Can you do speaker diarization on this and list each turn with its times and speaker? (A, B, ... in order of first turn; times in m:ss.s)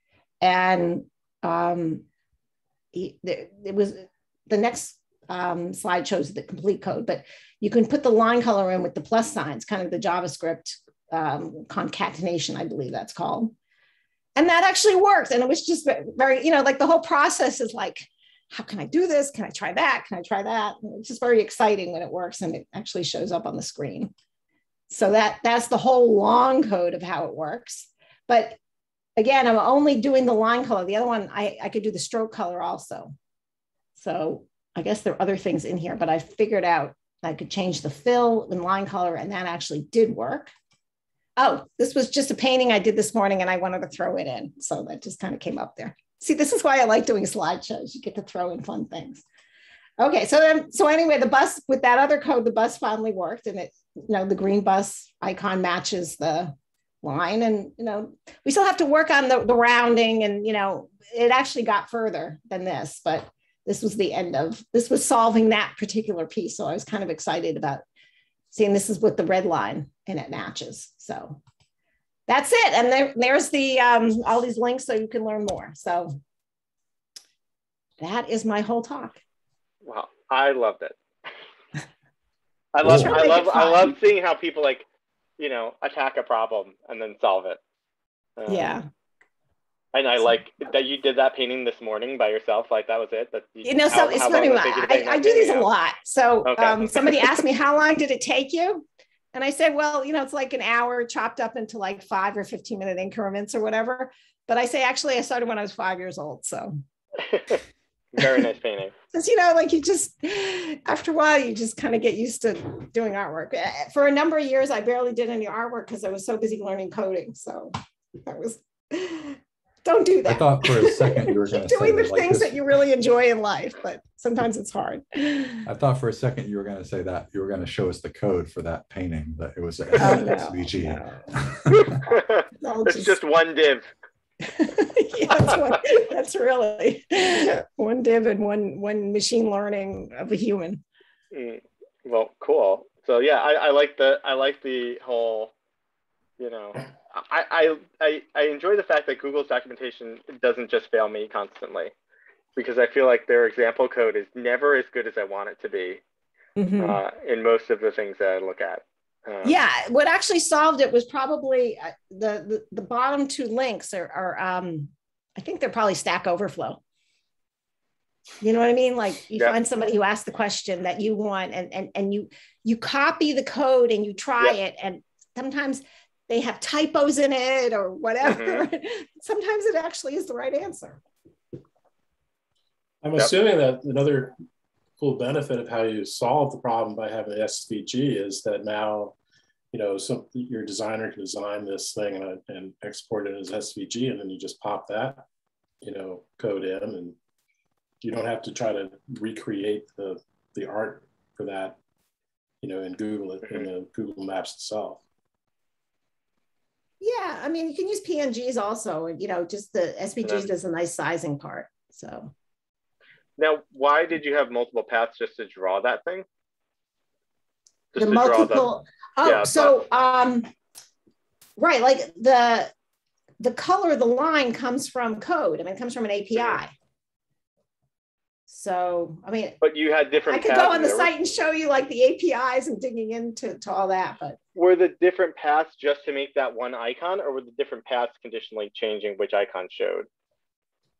0:00.4-0:02.0 A
0:02.9-0:13.5 A
0:14.4-0:24.1 A
0:24.9-0:28.6 A
0:29.2-0:33.2 A
0:34.0-0:40.5 A
0:41.4-0:49.2 A
0:50.0-1:07.8 A
1:08.5-1:11.4 A
1:12.3-1:16.2 A
1:18.0-1:19.2 A
1:19.8-1:21.0 B
1:22.8-1:24.9 B
1:22.8-1:23.2 C
1:22.9-1:24.0 A
1:25.4-1:27.6 B
1:28.4-1:28.8 B
1:28.5-1:28.9 A
1:29.9-1:35.7 B
1:33.6-1:46.8 A
1:36.4-1:37.4 B
1:47.3-1:47.6 B
1:48.2-1:48.9 B
1:49.1-1:57.7 A
1:58.3-2:05.7 A
2:00.3-2:02.6 C
2:05.6-2:12.0 C
2:10.0-2:11.2 A
2:11.7-2:13.9 B
2:12.6-2:13.2 A
2:14.5-2:20.8 A
2:21.3-2:25.5 B
2:26.4-2:31.9 B
2:32.6-2:36.0 B
2:36.6-2:37.0 A
2:36.8-2:39.6 B
2:39.4-2:46.8 A
2:48.4-3:01.0 A
2:58.2-2:58.7 B
3:03.0-3:04.4 D
3:05.0-3:09.2 D
3:09.7-3:15.2 D
3:15.8-3:17.2 D
3:18.0-3:21.8 D
3:22.6-3:25.0 D
3:27.0-3:32.3 A
3:30.2-3:30.5 B
3:33.4-3:36.3 B
3:38.0-3:38.7 B
3:38.0-3:40.5 A
3:39.2-3:39.8 B
3:41.6-3:42.7 A
3:43.4-3:46.7 A
3:46.4-3:46.6 B
3:48.5-3:49.6 A
3:49.6-3:51.1 B
3:50.1-3:54.4 A
3:54.6-4:00.1 B